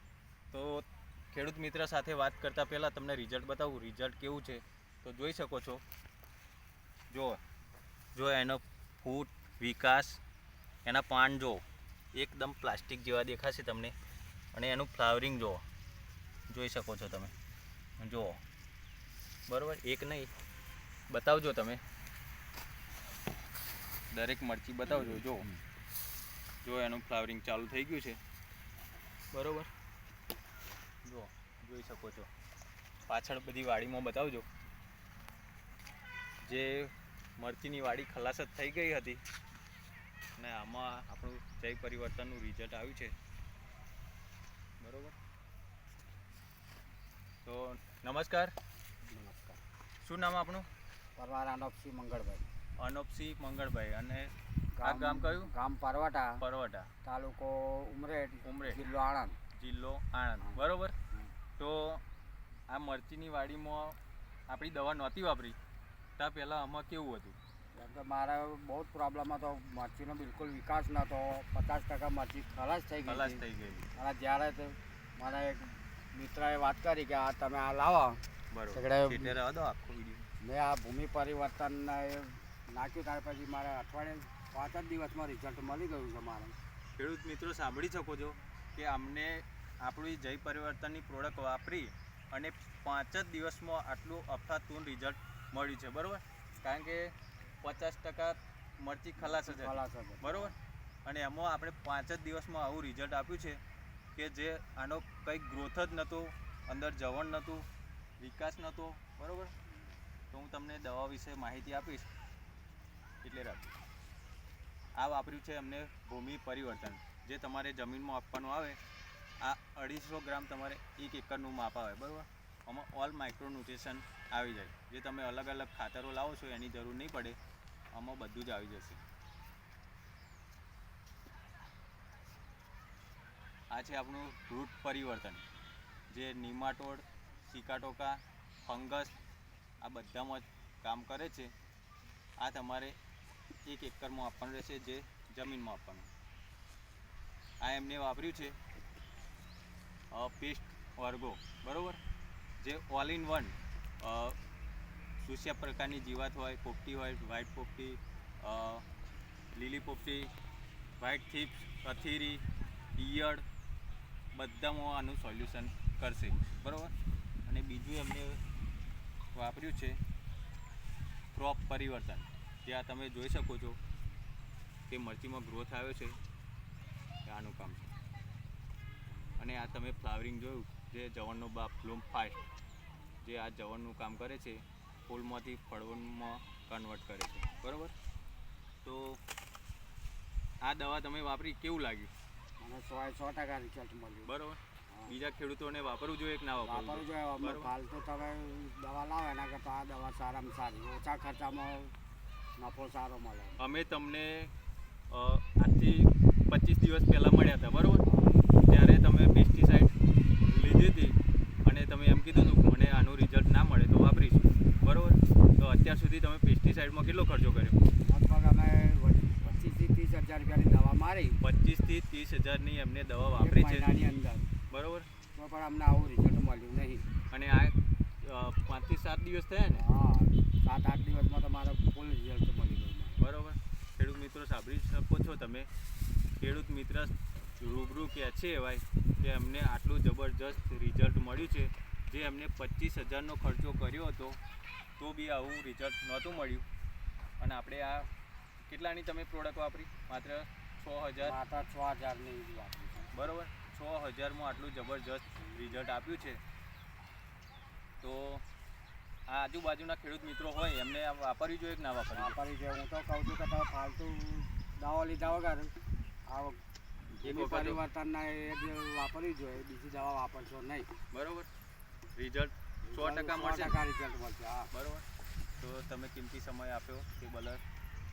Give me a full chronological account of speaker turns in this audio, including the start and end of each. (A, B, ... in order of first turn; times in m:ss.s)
0:00.5-0:05.8 A
0:07.1-0:07.4 A
0:08.1-0:10.2 A
0:10.8-0:14.0 A
0:14.5-0:15.6 A
0:16.5-0:17.3 A
0:18.0-0:18.4 A
0:19.5-0:20.3 A
0:21.1-0:21.8 A
0:24.1-0:25.5 A
0:26.6-0:28.2 A
0:29.3-0:29.7 A
0:31.0-0:32.3 A
0:33.1-0:34.5 A
0:36.4-0:39.2 A
0:40.4-0:43.2 A
0:44.8-0:45.2 A
0:47.4-0:48.6 A
0:49.1-0:49.6 B
0:50.0-0:50.7 A
0:51.2-0:52.5 B
0:52.8-0:54.3 A
0:54.8-0:56.4 B
0:54.8-0:55.5 A
0:56.4-0:56.9 A
0:57.0-0:59.4 B
0:58.4-0:58.8 A
0:59.6-1:01.0 A
1:01.6-1:02.0 A
1:02.7-1:04.0 A
1:04.5-1:05.6 A
1:06.2-1:07.4 A
1:07.7-1:13.4 B
1:13.0-1:13.9 A
1:14.0-1:18.2 B
1:18.5-1:20.3 A
1:18.7-1:19.4 B
1:20.4-1:26.6 B
1:27.0-1:43.6 A
1:39.2-1:40.5 B
1:44.2-1:47.7 A
1:48.2-1:49.5 A
1:50.3-1:52.1 A
1:53.2-1:53.8 A
1:55.0-1:58.8 A
1:59.4-2:07.4 A
2:07.9-2:09.0 A
2:13.7-2:15.4 A
2:16.1-2:19.1 A
2:19.8-2:21.5 A
2:22.4-2:23.0 A
2:23.6-2:26.1 A
2:27.6-2:28.6 A
2:30.1-2:32.0 A
2:32.6-2:34.4 A
2:35.2-2:38.8 A
2:39.5-2:40.3 A
2:41.0-2:43.4 A
2:44.3-2:46.9 A
2:47.5-2:48.4 A
2:49.3-2:50.0 A
2:51.3-2:53.8 A
2:54.9-2:56.2 A
2:57.3-2:57.9 A
2:59.4-3:02.4 A
3:03.2-3:07.9 A
3:08.8-3:09.2 A
3:10.6-3:12.1 A
3:12.6-3:14.3 B
3:14.3-3:17.7 A
3:16.6-3:21.9 B
3:22.6-3:23.6 B
3:23.6-3:24.5 A
3:25.1-3:28.1 A
3:28.0-3:28.5 B
3:28.6-3:29.9 A
3:30.5-3:37.8 A
3:38.1-3:41.4 B
3:41.4-3:43.8 A
3:43.4-3:44.5 B
3:44.7-3:45.1 A
3:45.4-3:47.1 B
3:47.3-3:49.9 A
3:49.7-3:53.2 B
3:53.2-3:55.7 A
3:56.4-4:04.4 A
4:05.0-4:06.7 A
4:07.4-4:08.1 A
4:08.7-4:11.4 A
4:11.2-4:13.1 B
4:13.1-4:16.4 A
4:18.0-4:18.4 A
4:19.3-4:22.4 A
4:22.1-4:25.8 B
4:26.3-4:26.6 B
4:27.1-4:27.8 A
4:27.2-4:30.9 B
4:31.1-4:31.5 A
4:32.2-4:33.8 A
4:32.8-4:34.7 B
4:34.7-4:35.0 A
4:35.6-4:37.6 A